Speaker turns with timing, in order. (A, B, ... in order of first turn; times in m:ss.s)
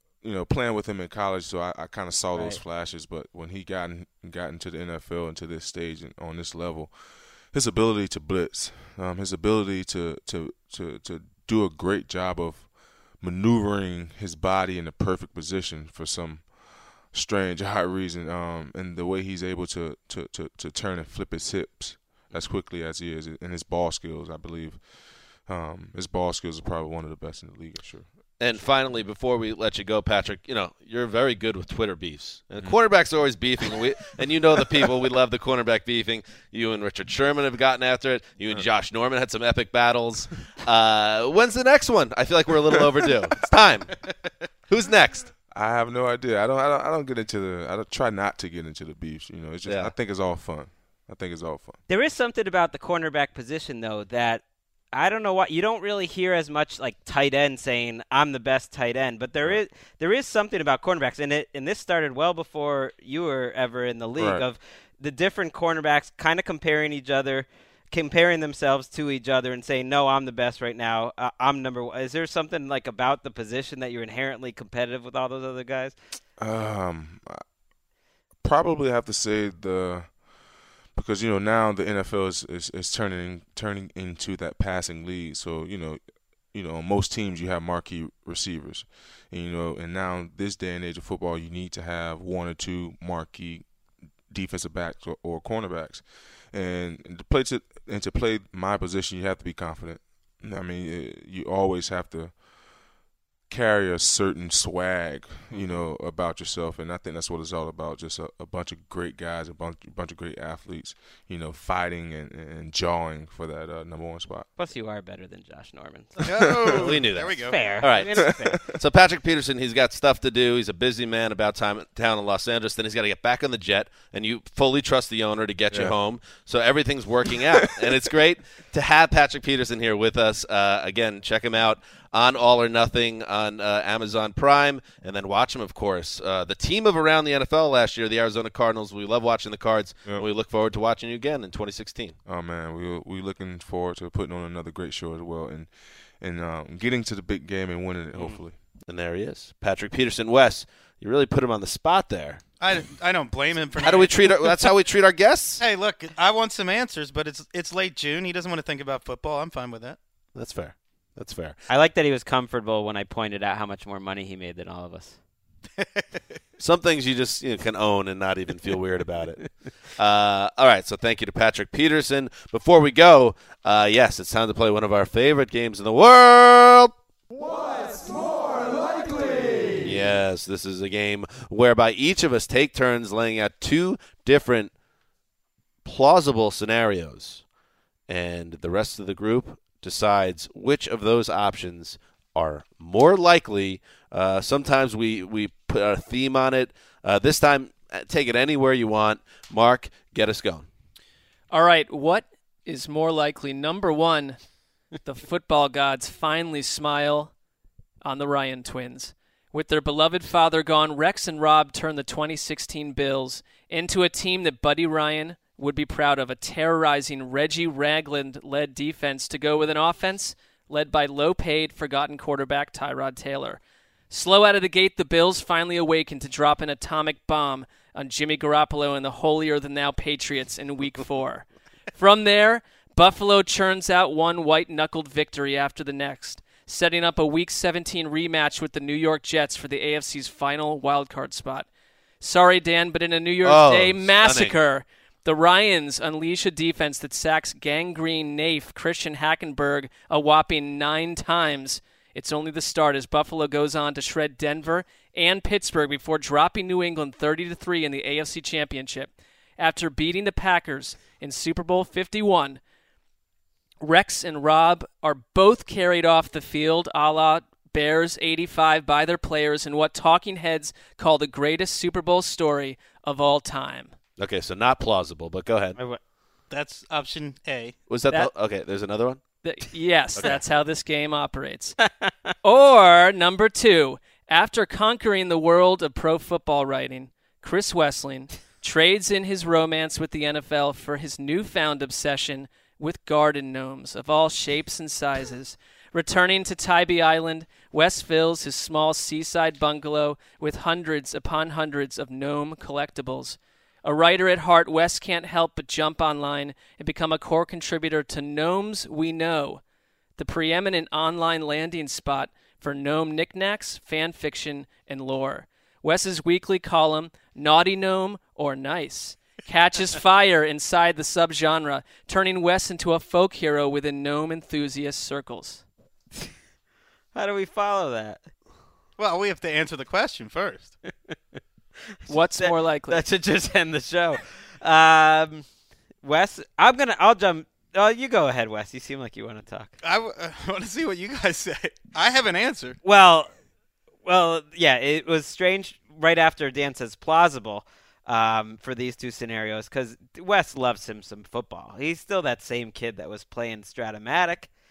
0:00.2-0:28.7 A
0:02.3-0:02.6 B
0:28.4-0:44.0 C
0:44.7-0:45.3 C
0:45.5-0:51.8 A
0:49.6-0:49.9 C
0:51.9-1:16.0 B
1:04.2-1:04.4 A
1:16.4-1:17.4 A
1:18.4-1:20.3 A
1:20.9-1:33.7 A
1:34.2-1:42.4 A
1:43.5-1:54.5 A
1:54.6-1:56.9 B
1:56.2-1:58.0 D
1:56.8-2:22.2 C
1:57.5-1:58.6 B
1:58.1-1:58.7 A
2:05.7-2:06.0 A
2:22.2-2:28.6 A
2:28.2-2:32.4 C
2:32.6-2:34.6 D
2:33.8-2:35.6 C
2:35.6-2:40.0 D
2:40.4-2:41.6 C
2:41.7-2:45.2 B
2:46.6-2:57.0 C
2:59.8-3:04.7 C
3:05.8-3:07.4 C
3:08.1-3:20.7 C
3:21.5-3:24.4 E
3:25.0-3:27.3 E
3:28.0-3:43.6 E
3:44.1-4:01.7 E
4:02.2-4:22.6 E
4:03.4-4:04.6 C
4:23.8-4:33.9 E
4:34.2-4:35.8 C
4:36.5-4:37.8 D
4:37.9-4:39.2 C
4:39.4-4:41.8 E
4:40.2-4:40.4 C
4:41.8-4:42.3 B
4:42.4-5:09.6 E
5:10.2-5:25.6 E
5:27.1-5:28.3 B
5:29.0-5:30.8 D
5:32.1-5:35.5 B
5:32.1-5:33.0 E
5:36.0-5:39.7 B
5:39.8-5:42.8 D
5:42.8-5:43.3 B
5:44.0-5:54.5 B